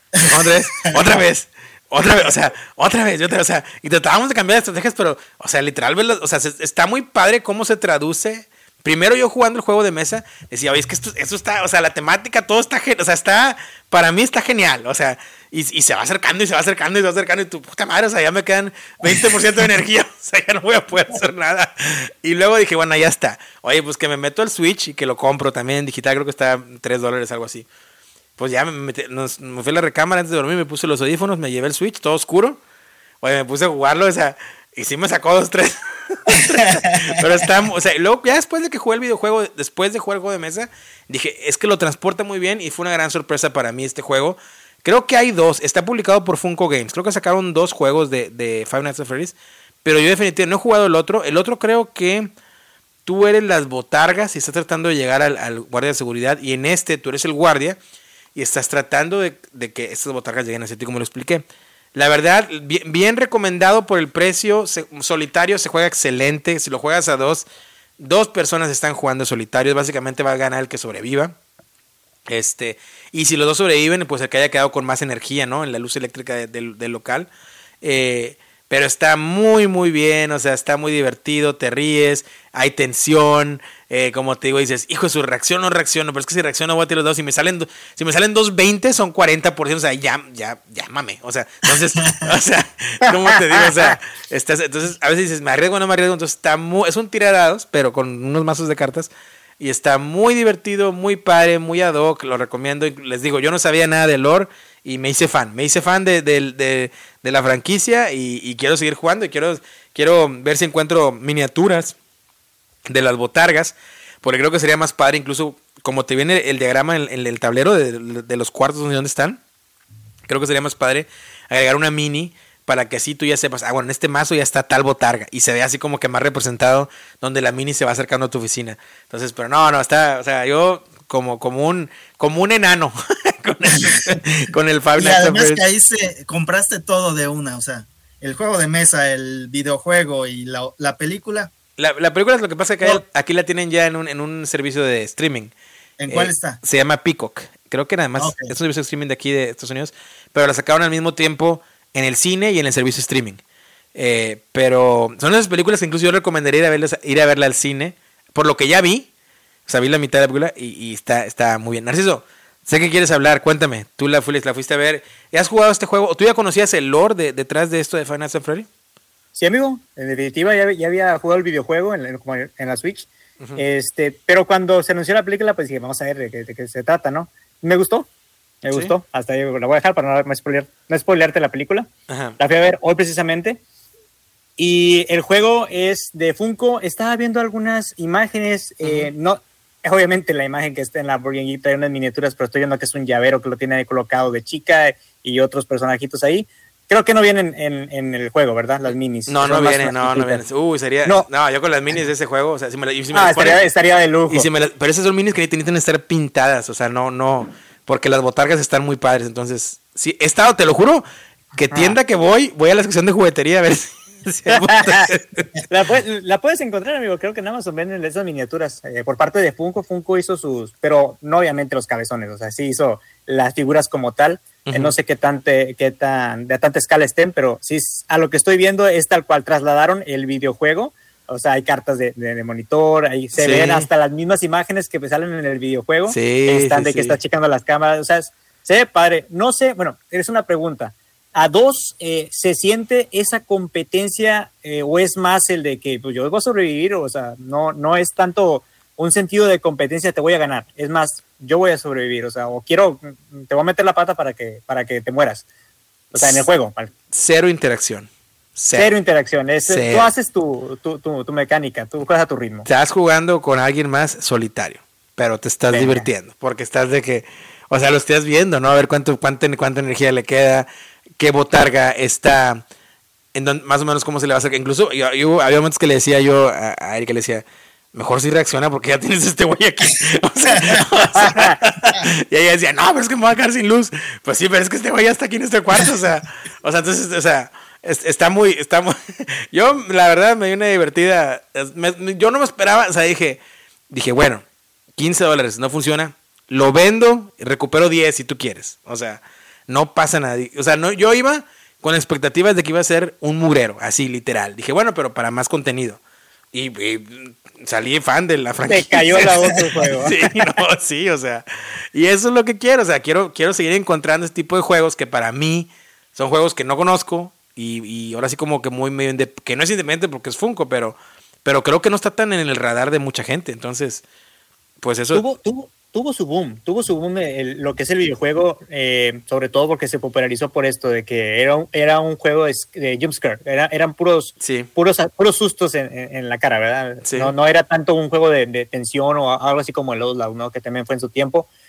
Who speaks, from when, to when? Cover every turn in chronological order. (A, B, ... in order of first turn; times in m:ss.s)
0:00.2-0:27.7 A
0:28.4-0:32.6 A
0:33.2-0:52.3 A
0:53.0-0:57.8 A
0:58.3-1:07.4 A
1:08.0-1:11.4 A
1:12.3-1:17.3 A
1:17.8-1:52.0 A
1:52.9-1:59.4 A
2:00.3-2:15.6 A
2:15.0-2:21.5 B
2:21.8-2:25.5 A
2:26.0-2:26.6 B
2:26.1-2:33.4 A
2:28.2-2:28.5 B
2:33.9-2:39.1 A
2:39.7-2:48.7 A
2:49.4-2:58.1 C
2:58.6-3:03.6 C
2:58.7-2:58.9 A
3:02.1-3:02.4 A
3:04.6-3:20.4 C
3:08.8-3:09.1 A
3:19.3-3:23.6 A
3:23.1-3:24.5 C
3:24.3-3:31.0 A
3:31.6-3:32.0 C
3:31.6-3:35.6 A
3:34.5-3:35.1 C
3:35.7-4:15.4 C
3:44.6-3:44.9 A
3:53.4-3:53.9 A
3:56.1-3:57.2 A
4:16.1-4:16.4 A
4:16.1-4:16.9 C
4:17.1-4:18.9 A
4:18.7-4:22.7 C
4:19.7-4:20.1 A
4:22.6-4:30.7 A
4:25.7-4:26.1 C
4:31.2-4:32.6 A
4:33.3-4:54.4 A
4:55.0-5:06.0 A
5:06.5-5:24.0 A
5:08.7-5:10.6 C
5:24.8-5:25.2 A
5:25.1-5:41.5 C
5:34.4-5:34.7 A
5:37.0-5:37.3 A